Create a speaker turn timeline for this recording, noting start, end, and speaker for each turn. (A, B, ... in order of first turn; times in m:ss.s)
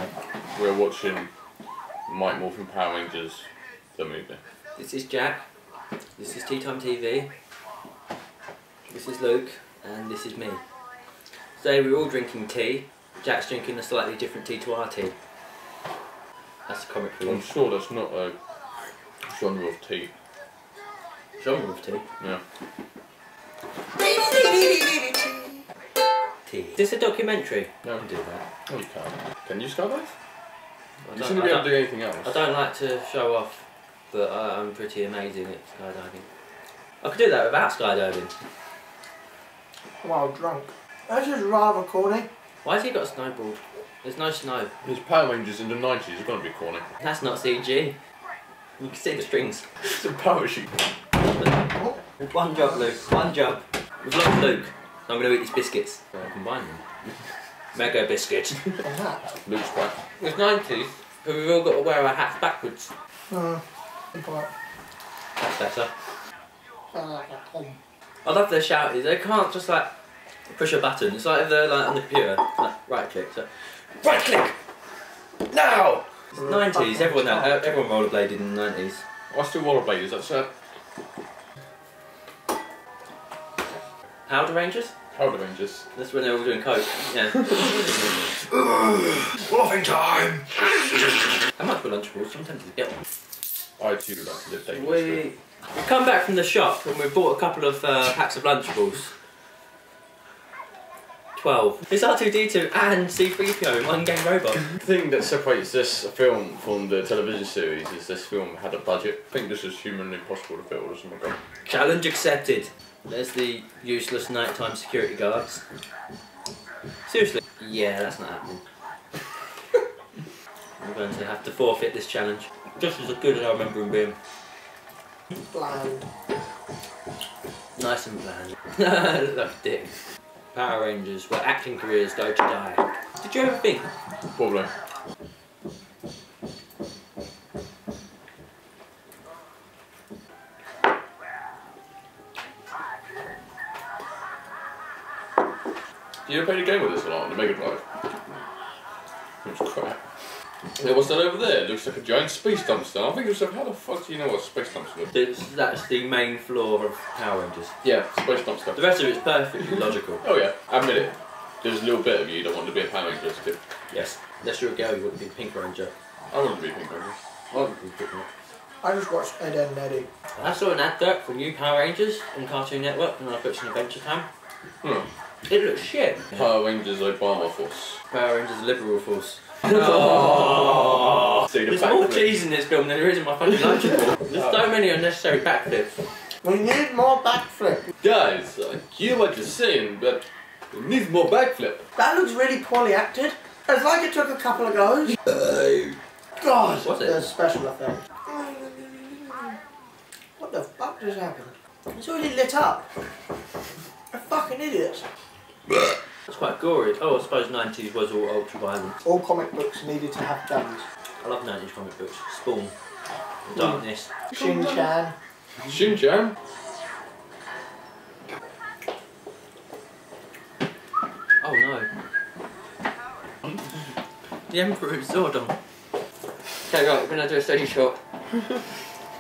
0:00.5-0:01.3 A
0:02.1-0:04.4 A
0:04.8-0:05.4 B
0:06.2-0:07.3 B
0:08.9-0:10.6 B
0:11.6-0:15.2 B
0:16.7-0:17.4 B
0:17.3-0:18.4 A
0:19.3-0:20.1 A
0:21.4-0:22.1 B
0:24.0-0:25.6 C
0:26.5-0:28.5 B
0:28.7-0:30.1 A
0:31.0-0:36.3 B
0:31.1-0:32.4 A
0:37.0-0:38.3 B
0:40.0-0:42.3 C
0:42.6-0:44.7 B
0:44.8-0:46.8 A
0:47.0-0:48.0 B
0:48.8-0:49.7 B
0:49.8-0:50.7 A
0:51.2-0:51.7 B
0:51.7-0:52.0 C
0:52.2-0:56.8 B
0:57.8-0:58.6 B
0:58.8-0:59.4 C
0:59.4-1:00.0 A
1:00.2-1:02.9 B
1:03.3-1:03.6 C
1:04.2-1:04.5 C
1:05.4-1:05.9 B
1:06.9-1:07.8 C
1:08.2-1:09.9 B
1:10.5-1:14.6 B
1:15.5-1:16.0 A
1:16.3-1:19.0 B
1:16.4-1:17.7 C
1:19.3-1:20.5 A
1:24.3-1:24.9 B
1:25.1-1:25.9 A
1:25.9-1:28.2 B
1:29.5-1:30.5 A
1:31.6-1:33.0 B
1:33.8-1:35.2 A
1:34.7-1:39.1 B
1:41.4-1:44.7 B
1:44.8-1:51.4 A
1:51.6-1:55.6 B
1:57.1-1:58.6 B
2:00.8-2:04.2 B
2:05.5-2:06.0 C
2:07.8-2:10.0 B
2:10.5-2:13.9 B
2:14.4-2:14.7 A
2:26.3-2:27.8 A
2:29.4-2:30.0 A
2:30.8-2:35.1 A
2:35.1-2:37.7 B
2:37.8-2:38.8 A
2:38.8-2:40.2 B
2:39.6-2:43.6 A
2:43.9-2:45.9 B
2:46.3-2:47.7 A
2:47.5-2:48.3 B
2:48.8-2:50.1 C
2:50.4-2:54.3 B
2:54.8-2:55.1 A
2:55.5-2:56.3 B
2:56.3-2:58.0 A
2:58.1-3:06.0 B
2:59.7-3:02.3 A
3:04.2-3:04.7 A
3:06.4-3:07.9 C
3:08.0-3:11.8 A
3:12.0-3:15.2 C
3:15.3-3:15.9 A
3:16.4-3:19.5 C
3:16.8-3:17.2 B
3:20.4-3:22.9 C
3:24.1-3:25.1 C
3:26.3-3:29.0 B
3:29.0-3:30.9 C
3:31.2-3:32.7 B
3:33.5-3:34.1 B
3:33.6-3:34.9 A
3:34.3-3:35.2 C
3:35.7-3:36.4 A
3:41.4-3:41.9 B
3:44.5-3:45.6 B
3:46.7-3:48.0 B